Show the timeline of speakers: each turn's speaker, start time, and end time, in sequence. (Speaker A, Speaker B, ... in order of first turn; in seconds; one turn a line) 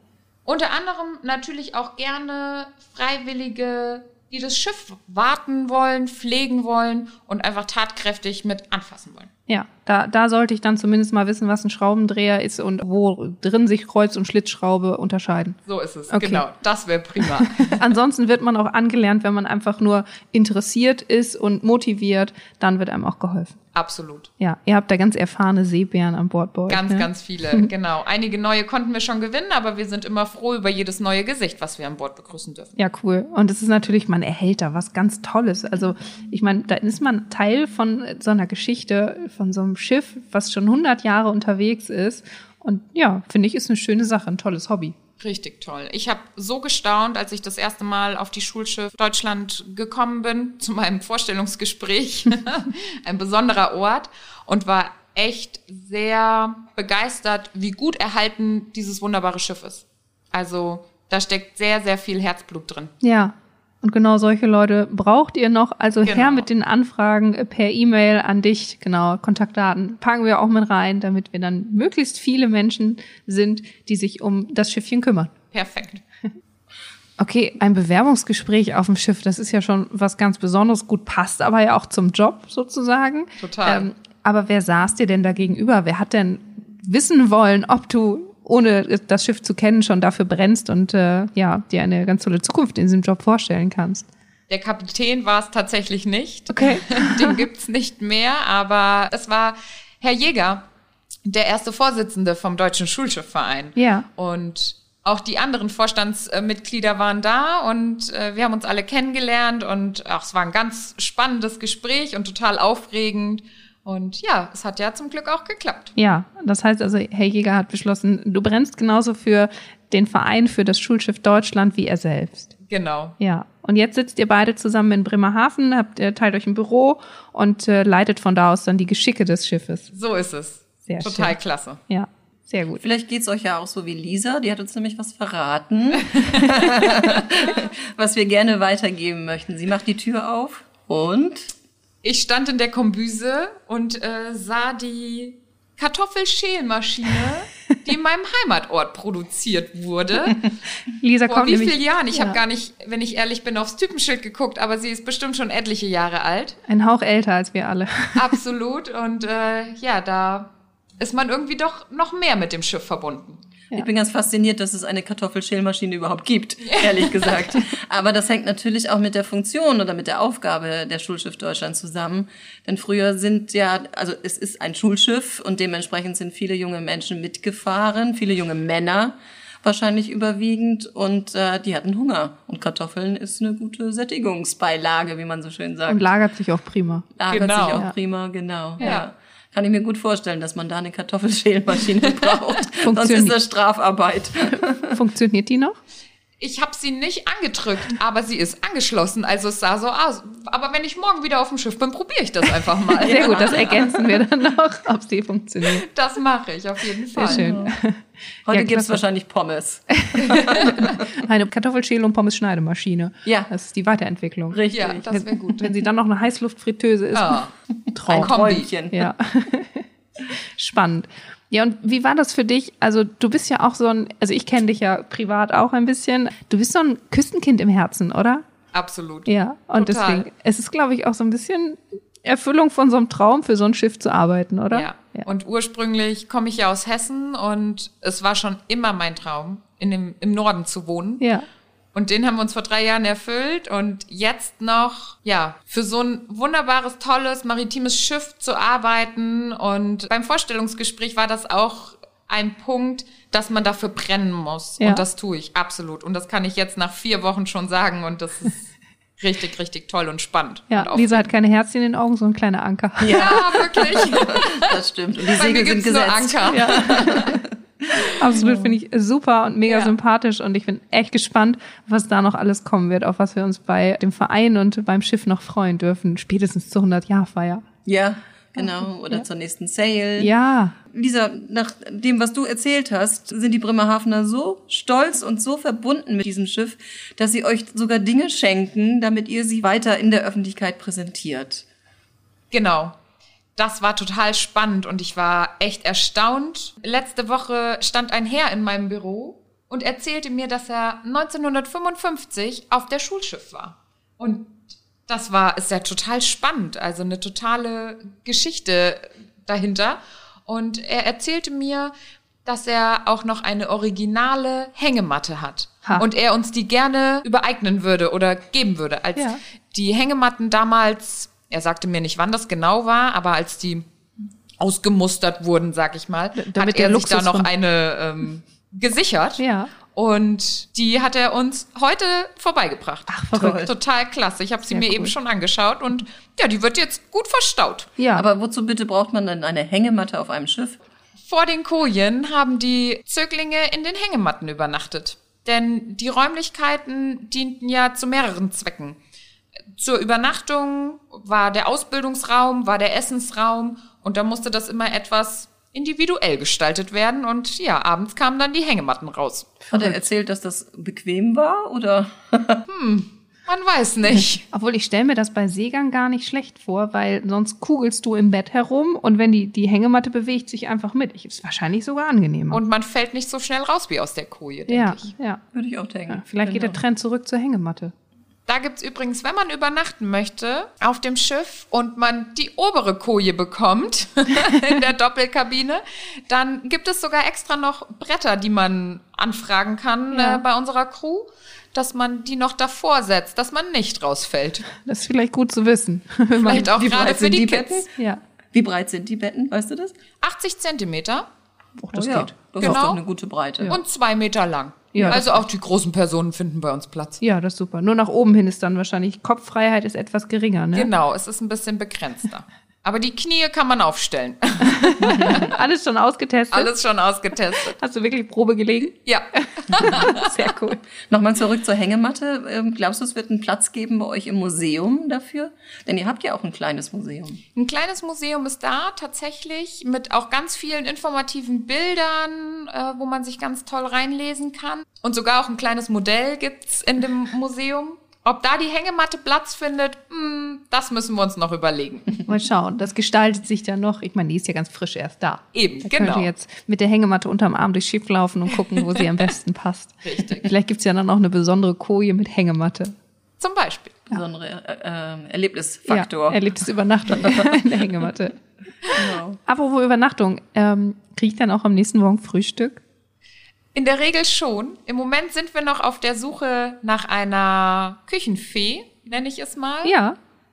Speaker A: 0.5-9.3
Speaker B: 9.5-15.6
Speaker A: 15.7-17.8
Speaker B: 16.1-16.4
Speaker B: 17.2-23.6
Speaker A: 23.7-24.3
Speaker B: 24.4-27.7
Speaker A: 26.7-32.8
Speaker B: 32.8-44.9
Speaker A: 45.2-62.9
Speaker B: 63.0-75.3
Speaker A: 66.0-66.5
Speaker A: 75.5-76.0
Speaker B: 77.2-94.1
Speaker A: 83.4-83.9
Speaker A: 94.5-100.6
Speaker B: 96.5-97.4
Speaker A: 101.2-115.9
Speaker B: 103.8-104.0
Speaker B: 116.0-122.5
Speaker A: 122.7-123.2
Speaker B: 123.2-129.9
Speaker A: 129.9-131.8
Speaker B: 130.8-132.8
Speaker C: 132.8-141.5
Speaker A: 136.1-137.6
Speaker A: 142.0-150.4
Speaker B: 151.0-152.4
Speaker A: 151.2-156.6
Speaker B: 156.7-158.4
Speaker A: 158.2-163.4
Speaker C: 163.7-186.1
Speaker A: 166.6-167.5
Speaker B: 185.9-187.1
Speaker C: 187.2-194.9
Speaker A: 187.3-187.8
Speaker A: 188.8-189.1
Speaker B: 192.8-193.4
Speaker B: 194.5-195.8
Speaker A: 196.4-203.8
Speaker C: 203.0-203.8
Speaker B: 203.0-205.8
Speaker A: 205.6-207.6
Speaker B: 207.1-209.0
Speaker C: 207.2-207.7
Speaker C: 208.4-211.0
Speaker B: 209.9-217.4
Speaker A: 210.5-210.9
Speaker C: 213.2-213.5
Speaker C: 214.5-215.7
Speaker A: 214.7-215.7
Speaker A: 217.1-217.5
Speaker C: 217.9-219.1
Speaker B: 217.9-219.8
Speaker A: 218.1-218.7
Speaker B: 220.6-228.4
Speaker A: 228.7-230.3
Speaker B: 229.2-235.3
Speaker A: 234.7-241.3
Speaker B: 241.2-241.4
Speaker A: 241.9-261.3
Speaker B: 254.8-255.1
Speaker B: 260.7-263.4
Speaker C: 263.0-267.4
Speaker A: 263.1-264.7
Speaker A: 265.3-267.4
Speaker B: 266.5-267.3
Speaker B: 268.2-277.6
Speaker C: 268.3-268.7
Speaker A: 269.7-269.9
Speaker C: 277.9-280.3
Speaker B: 278.6-279.2
Speaker B: 280.2-280.7
Speaker C: 280.9-291.6
Speaker A: 292.5-292.9
Speaker A: 293.6-311.9
Speaker A: 312.4-323.9
Speaker B: 319.1-319.4
Speaker A: 324.6-337.9
Speaker B: 326.3-327.5
Speaker B: 329.4-329.7
Speaker B: 333.1-333.6
Speaker C: 333.3-333.7
Speaker B: 334.7-335.1
Speaker B: 338.0-338.3
Speaker C: 338.1-340.8
Speaker A: 341.2-349.0
Speaker A: 349.7-359.5
Speaker B: 359.6-360.1
Speaker C: 359.7-362.6
Speaker A: 362.7-364.4
Speaker B: 364.5-372.6
Speaker A: 372.5-375.1
Speaker B: 374.7-375.4
Speaker C: 375.5-376.8
Speaker B: 376.1-377.9
Speaker A: 378.5-394.6
Speaker B: 390.1-390.4
Speaker B: 394.8-396.8
Speaker A: 396.4-397.8
Speaker C: 396.5-397.9
Speaker C: 398.5-399.9
Speaker A: 400.2-401.3
Speaker B: 401.8-402.8
Speaker C: 401.9-403.8
Speaker A: 402.6-403.0
Speaker A: 403.7-407.2
Speaker B: 404.9-405.4
Speaker B: 407.2-410.9
Speaker A: 410.7-415.5
Speaker B: 414.6-416.7
Speaker A: 416.5-417.7
Speaker B: 417.7-419.0
Speaker A: 419.0-420.3
Speaker B: 419.6-420.8
Speaker C: 421.0-427.4
Speaker A: 427.5-442.2
Speaker B: 442.3-452.9
Speaker A: 445.5-446.3
Speaker A: 450.0-450.5
Speaker A: 453.4-454.0
Speaker C: 454.1-456.4
Speaker B: 455.9-458.4
Speaker C: 457.1-457.7
Speaker C: 458.9-459.4
Speaker B: 459.4-462.8
Speaker A: 463.7-469.9
Speaker B: 469.8-470.1